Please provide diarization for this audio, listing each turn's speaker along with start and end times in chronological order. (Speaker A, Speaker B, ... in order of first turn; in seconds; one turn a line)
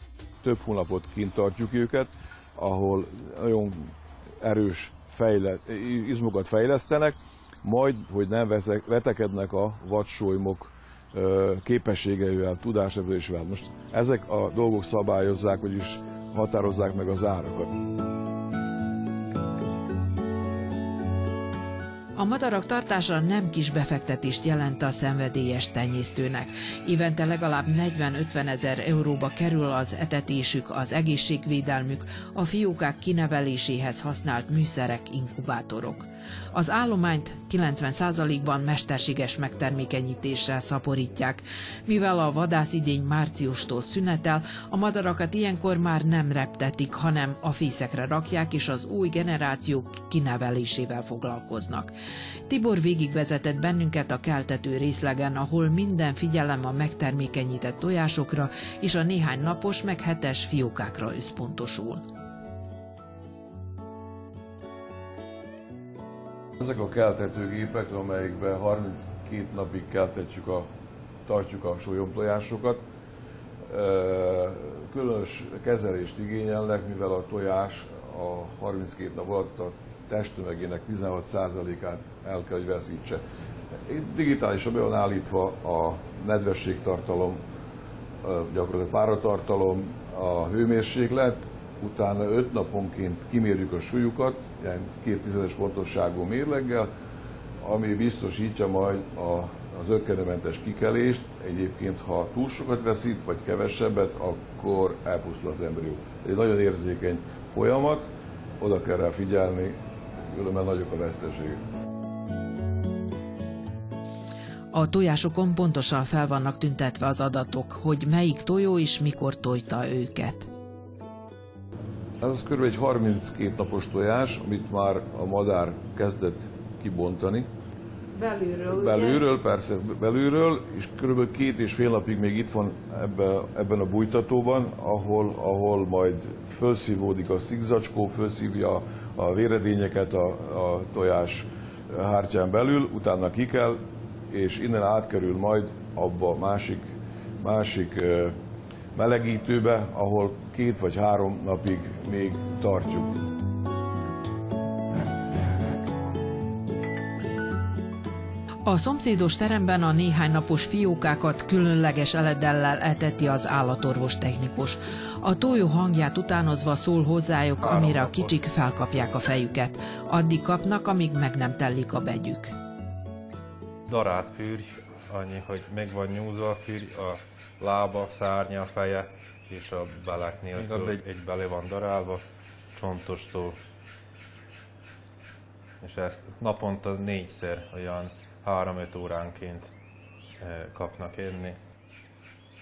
Speaker A: 0.4-17.8
Speaker B: 22.1-51.9
Speaker B: 52.5-62.0
Speaker A: 66.6-70.7
Speaker A: 71.3-72.8
Speaker A: 73.7-83.2
Speaker A: 83.8-87.4
Speaker A: 88.2-96.9
Speaker A: 97.6-111.6
Speaker B: 114.7-120.5
Speaker A: 122.2-127.5
Speaker B: 128.2-128.7
Speaker A: 128.6-146.9
Speaker A: 147.4-148.3
Speaker A: 148.9-153.2
Speaker B: 158.7-172.6
Speaker C: 173.9-182.2
Speaker C: 182.7-183.6
Speaker C: 185.8-189.7
Speaker C: 190.4-191.6